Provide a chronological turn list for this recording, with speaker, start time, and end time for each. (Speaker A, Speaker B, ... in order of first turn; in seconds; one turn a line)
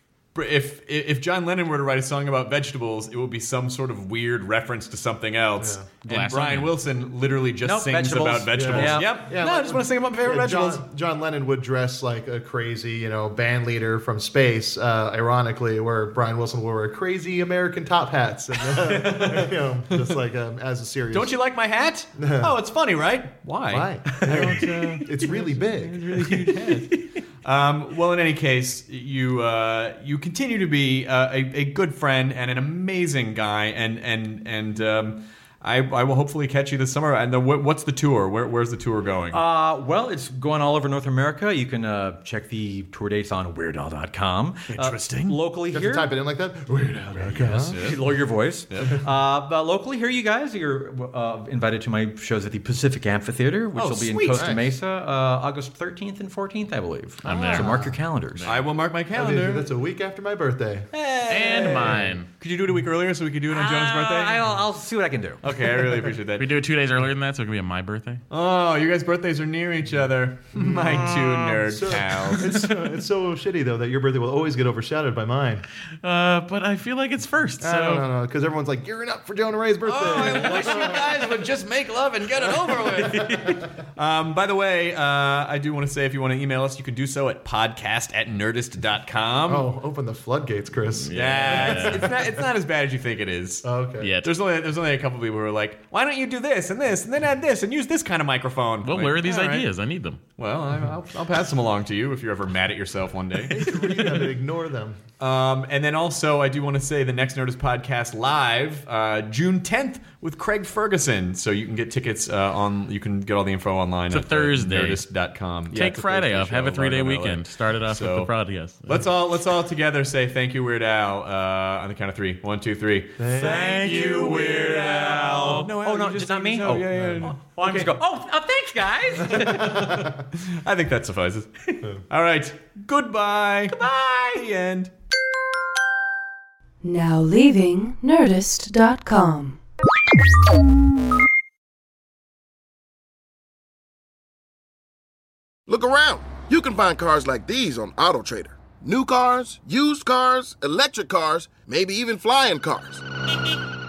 Speaker A: 0.3-10.8
Speaker B: 5.6-5.8
Speaker C: 6.0-6.7
Speaker D: 7.6-9.2
Speaker B: 8.5-21.4
Speaker A: 18.8-20.1
Speaker A: 21.1-39.4
Speaker B: 22.1-22.6
Speaker B: 23.7-26.1
Speaker D: 24.2-24.9
Speaker C: 24.2-25.1
Speaker D: 39.3-46.1
Speaker A: 44.7-45.4
Speaker B: 45.7-47.9
Speaker A: 47.1-48.0
Speaker D: 47.4-58.5
Speaker A: 48.7-49.0
Speaker A: 53.7-54.6
Speaker B: 54.3-54.6
Speaker C: 57.2-58.6
Speaker B: 57.3-58.0
Speaker A: 58.4-59.7
Speaker B: 59.1-60.9
Speaker A: 60.9-64.5
Speaker C: 61.3-62.3
Speaker B: 61.5-62.2
Speaker D: 63.5-65.4
Speaker A: 65.4-66.5
Speaker C: 65.8-68.2
Speaker A: 68.3-72.7
Speaker B: 70.5-75.6
Speaker C: 76.0-78.1
Speaker B: 77.6-81.2
Speaker A: 79.8-89.7
Speaker B: 82.7-83.1
Speaker D: 83.1-83.6
Speaker B: 89.4-92.4
Speaker C: 91.0-92.1
Speaker A: 91.1-93.7
Speaker B: 93.6-94.1
Speaker C: 94.0-94.3
Speaker A: 94.2-99.7
Speaker C: 98.8-100.2
Speaker A: 100.4-104.2
Speaker B: 103.4-105.0
Speaker A: 105.2-118.3
Speaker C: 114.1-115.0
Speaker C: 115.7-119.0
Speaker A: 118.9-127.9
Speaker B: 123.2-123.7
Speaker C: 123.4-125.6
Speaker D: 123.4-130.0
Speaker B: 126.9-127.2
Speaker B: 129.4-130.1
Speaker A: 129.5-131.5
Speaker A: 132.1-134.9
Speaker D: 133.7-134.5
Speaker E: 136.8-139.6
Speaker F: 145.7-153.0